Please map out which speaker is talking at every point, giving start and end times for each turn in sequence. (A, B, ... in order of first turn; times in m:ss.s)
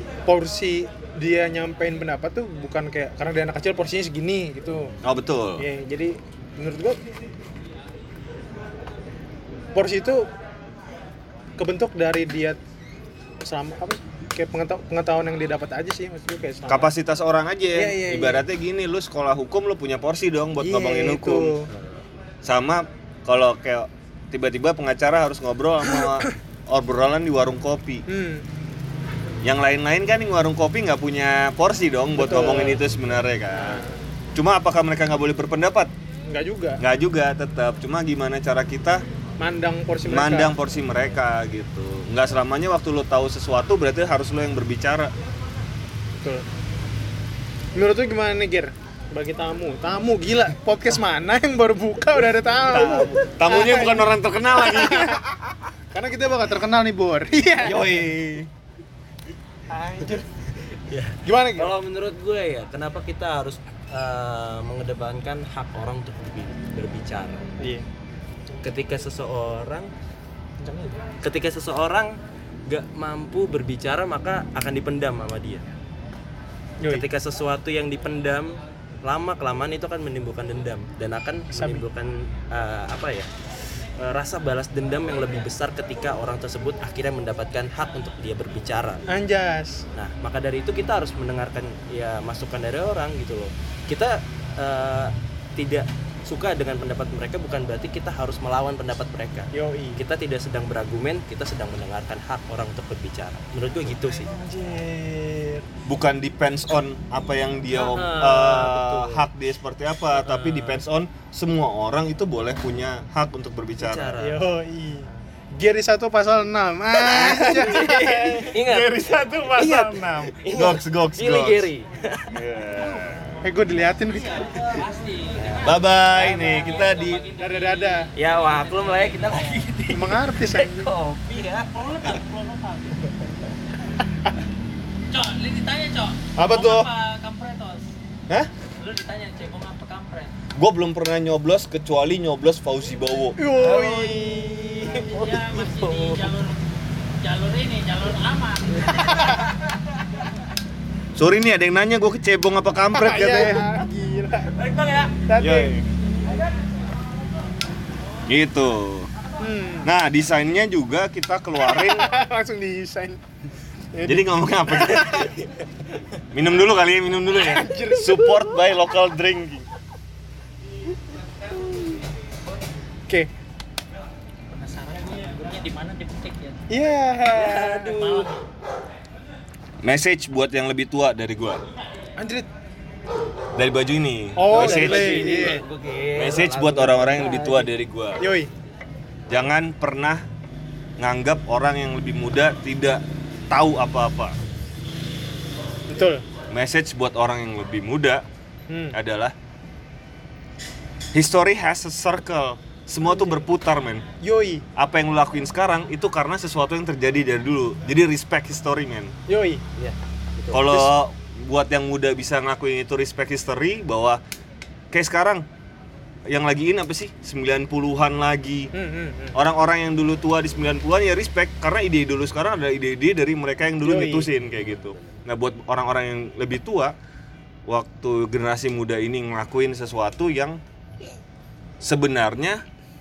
0:00.3-0:04.9 A
0:05.0-0:05.7 B
0:05.6-0:07.0 A
0:09.7-0:10.3 A
0:11.6-0:12.6 A
0:13.4-0:16.9 A
0:16.7-0:21.5 B
0:17.7-0:18.4 A
0:20.6-0:21.7 A
0:21.7-0:22.0 C
0:22.4-0:28.0 B
0:26.0-0:26.2 A
0:28.1-0:28.4 A
0:29.4-0:35.9 B
0:32.2-0:32.8 A
0:32.8-0:33.1 C
0:33.5-0:34.0 A
0:36.3-0:36.8 A
0:36.8-0:39.0 B
0:39.4-0:40.5 A
0:40.0-0:45.1 B
0:46.2-0:46.4 A
0:47.7-0:55.2 A
0:52.7-0:55.2 B
0:55.9-0:57.9 A
0:57.6-0:58.5 B
0:59.7-1:00.2 A
1:00.6-1:07.5 C
1:01.2-1:01.7 A
1:07.6-1:07.8 A
1:08.6-1:09.9 C
1:10.6-1:11.0 A
1:11.2-1:15.6 C
1:16.8-1:17.0 A
1:16.9-1:23.3 C
1:21.5-1:21.8 A
1:24.0-1:29.0 C
1:29.1-1:29.8 A
1:29.9-1:44.3 C
1:39.5-1:40.0 A
1:44.3-1:45.6 A
1:45.9-1:54.2 B
1:47.7-1:49.3 C
1:50.1-1:50.8 C
1:53.8-1:54.4 C
1:54.2-1:58.5 A
1:57.1-2:02.3 C
1:57.2-1:57.6 B
1:58.5-2:01.7 B
2:02.3-2:03.4 B
2:03.4-2:04.5 A
2:04.2-2:09.7 D
2:05.3-2:06.7 C
2:05.6-2:07.2 B
2:07.4-2:08.1 A
2:08.1-2:11.7 C
2:09.9-2:10.9 A
2:11.3-2:13.0 D
2:15.1-2:17.9 D
2:16.4-2:16.9 B
2:18.8-2:20.3 D
2:20.5-2:23.4 B
2:23.4-2:25.3 A
2:23.6-2:26.3 C
2:24.9-2:29.5 D
2:28.9-2:29.4 A
2:31.2-2:33.7 B
2:32.9-2:34.5 A
2:34.5-2:35.2 D
2:35.3-2:35.7 A
2:35.4-2:35.9 B
2:38.3-2:39.1 B
2:39.4-2:39.9 A
2:39.8-2:42.1 B
2:41.6-2:43.2 A
2:43.9-2:45.5 A
2:44.0-2:45.3 B
2:46.3-2:49.6 B
2:47.3-2:48.6 A
2:54.5-2:56.6 D
2:56.7-2:58.0 A
2:57.3-2:58.3 C
2:57.9-2:58.4 D
2:59.8-3:01.6 B
3:02.2-3:02.5 A
3:03.6-3:05.6 B
3:04.4-3:05.6 A
3:04.5-3:07.7 C
3:06.2-3:08.2 B
3:08.2-3:08.5 A
3:09.3-3:10.2 B
3:11.0-3:14.4 B
3:15.9-3:16.2 A
3:16.5-3:18.2 B
3:18.7-3:19.0 A
3:18.9-3:19.3 B
3:21.1-3:24.0 B
3:23.0-3:23.4 A
3:24.2-3:24.6 A
3:24.8-3:29.1 B
3:29.3-3:29.6 A
3:29.8-3:30.7 C
3:30.5-3:34.2 B
3:34.9-3:35.4 B
3:36.3-3:38.7 B
3:38.7-3:39.4 A
3:39.3-3:46.9 B
3:43.8-3:44.3 A
3:44.4-3:45.2 C
3:47.7-3:50.6 B
3:51.8-3:52.6 B